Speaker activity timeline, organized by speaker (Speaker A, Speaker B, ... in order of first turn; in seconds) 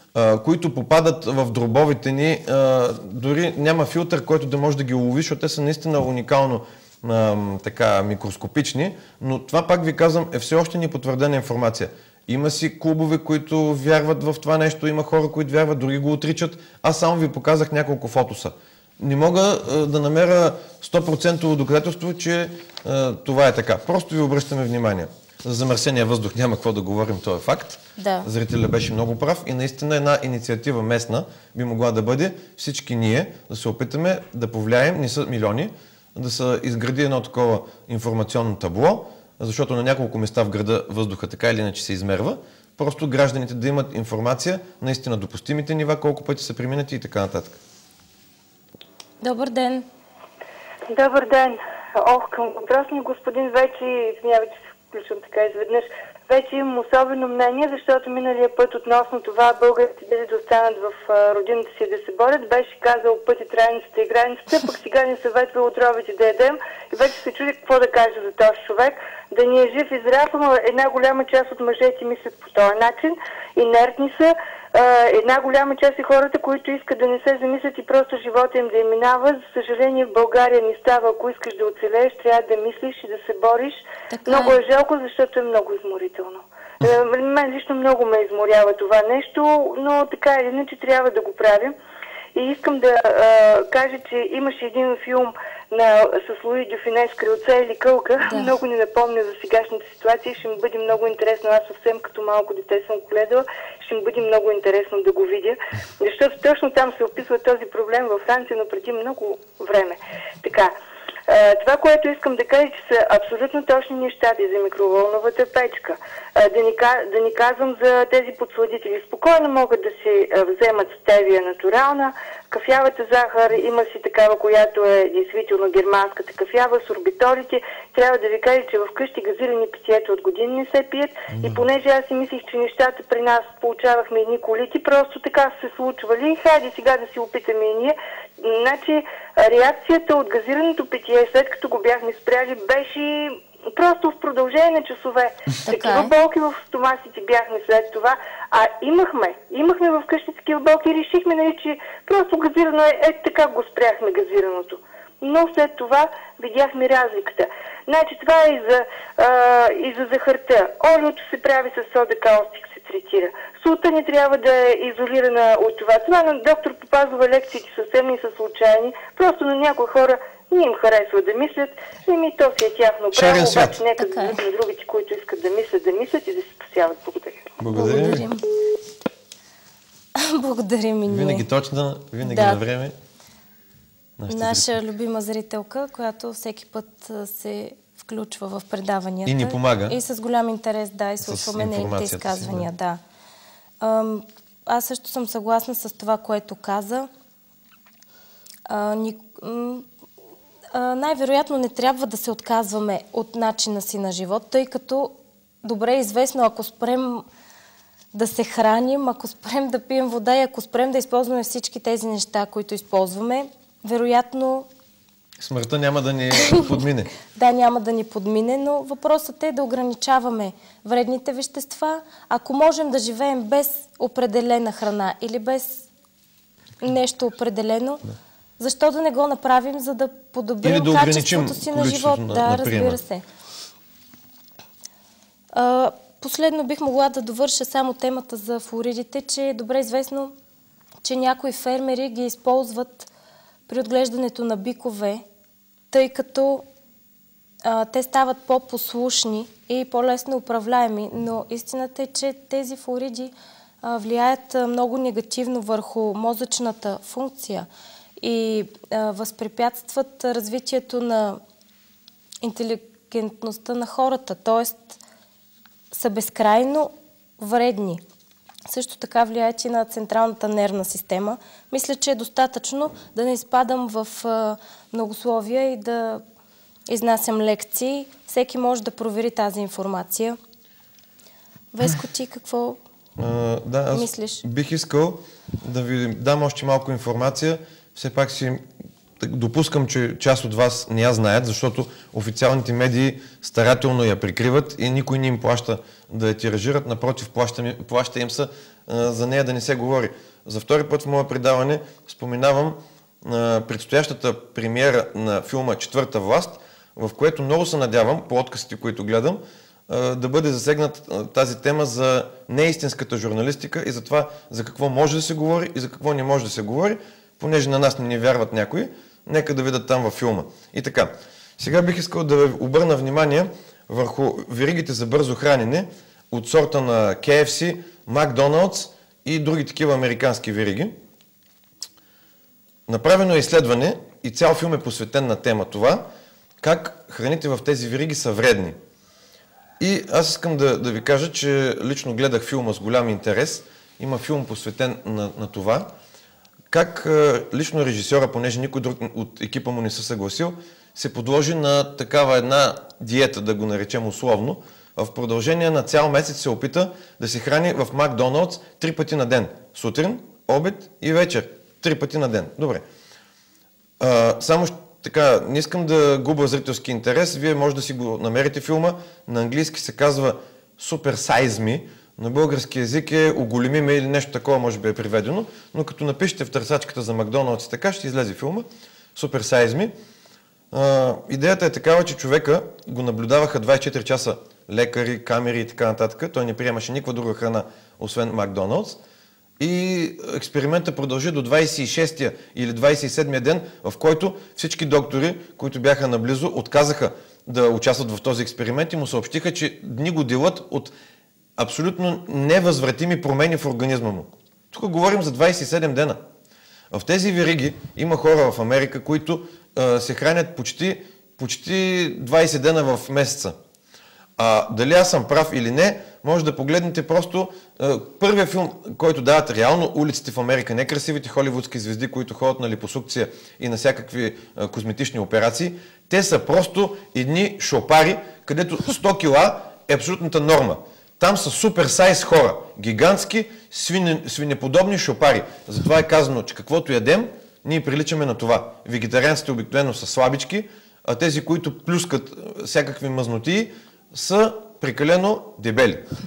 Speaker A: 0.1-47.6, 131.3-131.7, 173.1-173.8, 177.6-178.3, 181.1-182.9, 184.2-184.8, 189.2-190.0, 191.2-192.7, 215.4-217.1, 230.6-233.0, 283.2-288.6, 289.2-330.9, 332.9-336.1, 336.6-338.8, 339.8-345.9, 346.7-362.8, 364.0-379.9, 380.7-389.0, 389.6-400.9, 401.6-406.2, 406.9-413.6, 414.4-446.0
Speaker B: 28.0-28.3, 49.2-49.9, 84.1-84.6, 98.2-98.5, 145.7-146.1, 174.0-174.4, 177.7-178.4, 180.2-181.4, 182.2-182.6, 184.3-193.0, 193.8-197.1, 198.7-199.8, 200.7-207.2, 208.1-214.7, 217.3-225.9, 226.8-228.0, 228.6-233.2, 235.5-240.3, 241.0-243.1, 243.7-245.2, 245.9-246.6, 247.6-257.7, 258.2-261.4, 262.4-265.0, 265.9-268.0, 268.7-276.2, 276.9-280.4, 281.7-282.8, 283.9-284.4
Speaker C: 50.9-91.7, 92.3-110.7, 111.3-177.5